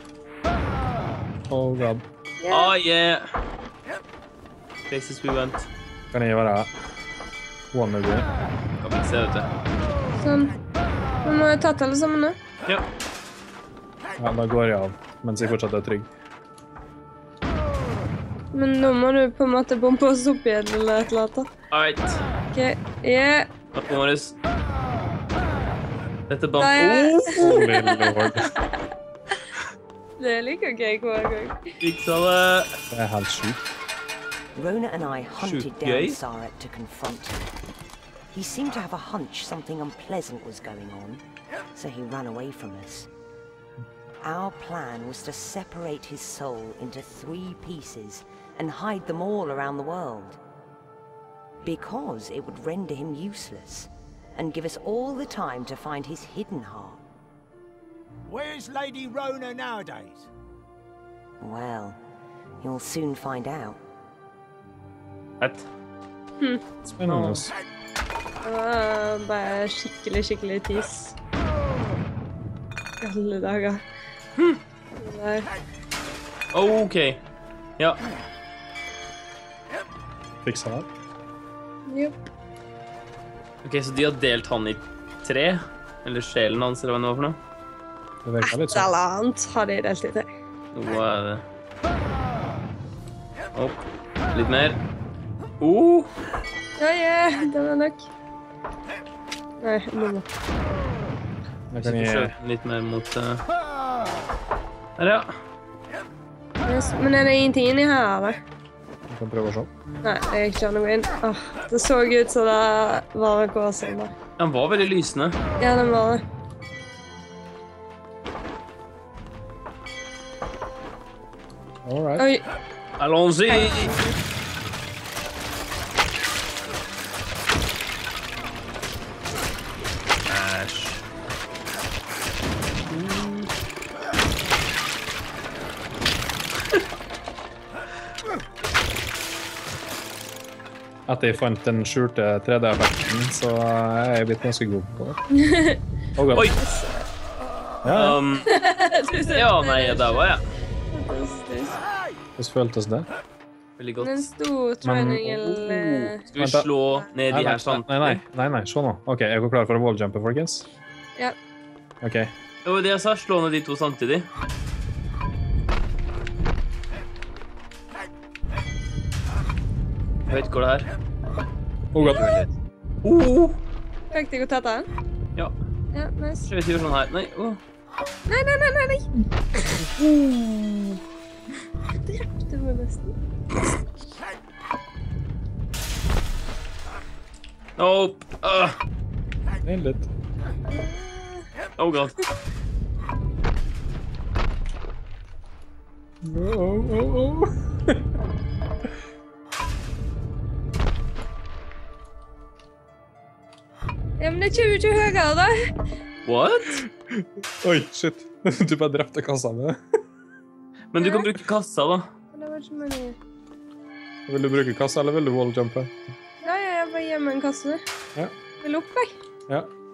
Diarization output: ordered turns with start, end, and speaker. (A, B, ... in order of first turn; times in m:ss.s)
0:01.5-0:02.0 A
0:02.4-0:02.7 B
0:02.5-0:03.3 C
0:04.9-0:05.7 C
0:06.1-0:06.7 A
0:07.7-0:08.3 A
0:08.8-0:09.5 C
0:10.2-0:10.6 B
0:11.2-0:12.4 B
0:14.2-0:16.1 A
0:18.5-0:21.5 B
0:21.7-0:22.2 C
0:22.5-0:23.5 B
0:23.7-0:24.4 C
0:26.3-0:27.6 C
0:26.6-0:28.7 B
0:27.4-0:28.5 A
0:30.2-0:31.7 B
0:31.8-0:32.8 C
0:32.9-0:33.6 A
0:34.6-0:37.4 D
0:35.4-0:36.2 C
0:38.3-0:41.2 D
0:41.8-0:43.1 D
0:44.2-0:50.4 D
0:51.6-0:57.0 D
0:58.3-1:00.3 E
1:01.4-1:02.0 D
1:02.6-1:03.8 D
1:05.4-1:05.7 C
1:06.8-1:07.5 A
1:07.1-1:07.5 C
1:08.4-1:11.2 B
1:13.0-1:13.8 B
1:15.0-1:15.5 B
1:16.5-1:17.2 C
1:20.4-1:20.9 A
1:21.9-1:22.2 B
1:23.6-1:27.4 C
1:28.2-1:28.9 A
1:28.4-1:30.3 B
1:30.7-1:31.4 C
1:33.5-1:34.8 C
1:35.6-1:36.1 C
1:36.8-1:38.1 B
1:39.6-1:40.3 B
1:41.7-1:42.3 A
1:41.8-1:43.4 C
1:45.0-1:45.4 C
1:46.6-1:48.4 B
1:49.1-1:49.7 A
1:50.0-1:54.1 B
1:54.4-1:55.4 C
1:55.6-1:56.2 B
2:01.8-2:02.3 A
2:02.2-2:02.4 B
2:03.0-2:03.9 C
2:03.5-2:04.2 B
2:10.3-2:11.0 C
2:12.9-2:13.5 C
2:21.1-2:25.2 A
2:25.3-2:25.8 B
2:26.2-2:26.5 A
2:26.3-2:26.6 C
2:26.5-2:27.1 B
2:27.8-2:28.2 A
2:27.9-2:28.5 C
2:28.5-2:30.2 B
2:29.3-2:30.4 C
2:30.9-2:31.8 B
2:32.4-2:33.1 A
2:33.8-2:34.3 C
2:34.0-2:36.2 B
2:34.8-2:35.3 A
2:35.3-2:38.2 C
2:36.4-2:36.7 A
2:37.3-2:40.7 A
2:42.0-2:42.3 A
2:42.6-2:44.3 C
2:50.3-2:50.9 C
2:51.9-2:52.4 A
2:52.0-2:52.3 C
2:52.1-2:52.4 B
2:53.0-2:53.6 C
2:54.1-2:54.9 B
2:55.9-2:56.5 B
2:56.5-2:57.6 C
2:58.3-2:59.1 B
3:00.0-3:01.0 C
3:02.0-3:03.1 B
3:07.8-3:08.8 C
3:09.6-3:10.1 A
3:10.7-3:11.5 B
3:11.8-3:12.2 C
3:16.2-3:18.1 A
3:24.2-3:25.7 B
3:26.2-3:26.8 C
3:27.1-3:30.0 A
3:30.9-3:32.1 C
3:31.0-3:31.3 B
3:32.3-3:33.2 B
3:34.3-3:36.0 A
3:36.4-3:37.8 B
3:38.6-3:39.2 B